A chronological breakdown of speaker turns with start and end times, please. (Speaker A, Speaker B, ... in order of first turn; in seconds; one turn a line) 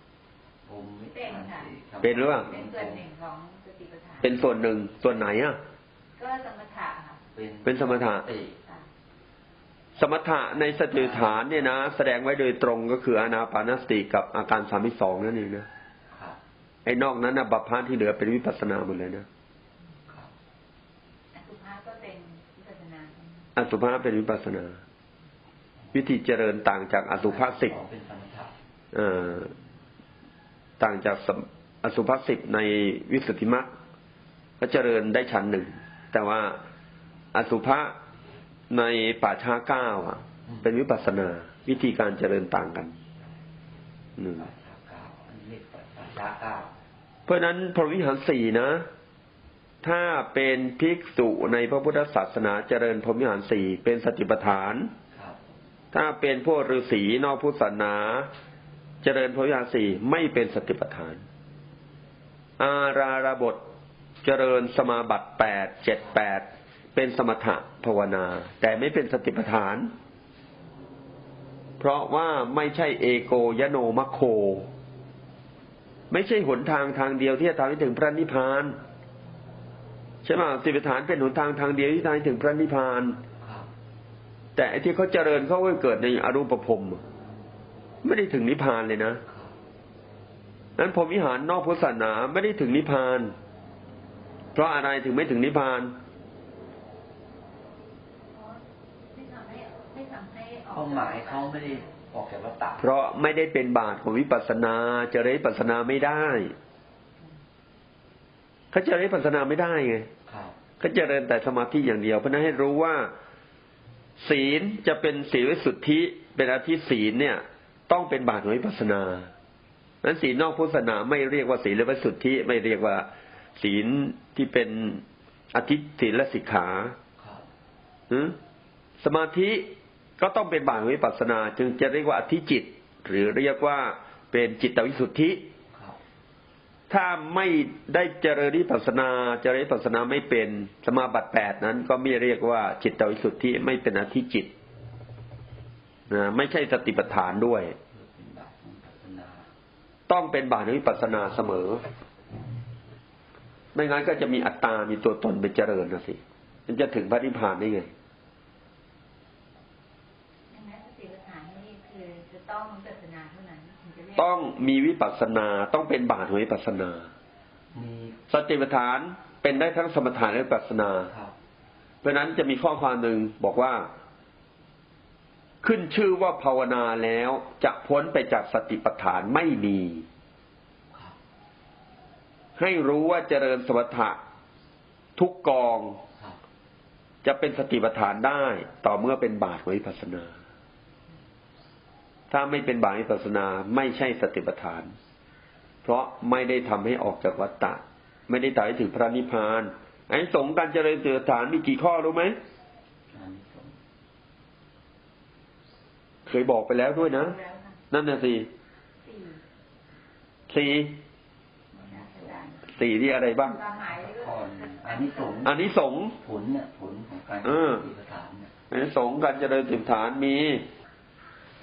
Speaker A: 0.7-3.1
Speaker B: 1.1-1.7
Speaker C: 2.0-2.5
Speaker B: 2.3-4.4
Speaker C: 4.2-5.6
Speaker B: 6.2-7.2
Speaker A: 7.3-8.6
Speaker C: 7.7-8.3
Speaker C: 10.0-15.7
Speaker A: 10.9-11.5
Speaker A: 16.1-16.4
Speaker C: 16.9-19.3
Speaker A: 20.1-20.3
Speaker B: 21.3-23.4
Speaker C: 23.6-24.8
Speaker C: 25.9-27.8
Speaker A: 27.2-28.5
Speaker C: 28.9-29.5
Speaker C: 30.8-33.7
Speaker C: 34.6-36.6
Speaker C: 37.3-38.0
Speaker C: 38.7-43.0
Speaker C: 44.2-44.5
Speaker A: 44.4-46.7
Speaker C: 47.3-48.9
Speaker C: 49.8-54.9
Speaker A: 55.1-55.4
Speaker C: 55.9-58.3
Speaker C: 59.0-61.2
Speaker C: 62.6-63.6
Speaker C: 64.2-69.9
Speaker C: 71.8-74.7
Speaker C: 76.1-78.8
Speaker C: 80.2-83.2
Speaker A: 83.4-83.7
Speaker C: 84.6-87.0
Speaker C: 88.0-89.2
Speaker A: 89.3-89.6
Speaker C: 90.8-93.4
Speaker C: 94.5-96.0
Speaker B: 98.3-101.8
Speaker A: 100.7-102.8
Speaker C: 102.8-106.5
Speaker C: 108.7-110.1
Speaker A: 110.3-110.6
Speaker C: 110.8-113.1
Speaker C: 114.2-119.3
Speaker C: 120.0-127.0
Speaker A: 127.2-127.5
Speaker C: 128.1-128.4
Speaker C: 129.0-135.4
Speaker A: 135.7-136.0
Speaker C: 136.9-144.5
Speaker C: 146.1-147.8
Speaker A: 147.9-149.5
Speaker C: 150.1-151.8
Speaker C: 153.8-157.9
Speaker B: 160.5-164.3
Speaker C: 164.2-167.1
Speaker A: 167.7-168.2
Speaker C: 168.3-171.1
Speaker A: 171.1-171.3
Speaker C: 172.0-173.9
Speaker C: 175.6-180.1
Speaker A: 180.9-181.2
Speaker C: 182.6-184.2
Speaker C: 185.2-186.0
Speaker C: 187.2-190.3
Speaker C: 192.3-194.9
Speaker C: 195.8-202.4
Speaker A: 203.1-203.8
Speaker C: 206.3-207.4
Speaker B: 207.1-207.8
Speaker C: 207.9-208.5
Speaker B: 209.0-209.4
Speaker C: 210.5-211.0
Speaker B: 211.8-212.7
Speaker A: 211.9-212.3
Speaker C: 212.7-213.6
Speaker B: 213.5-215.5
Speaker A: 214.0-215.6
Speaker C: 215.4-216.2
Speaker A: 216.1-218.5
Speaker C: 217.4-217.8
Speaker C: 218.7-220.7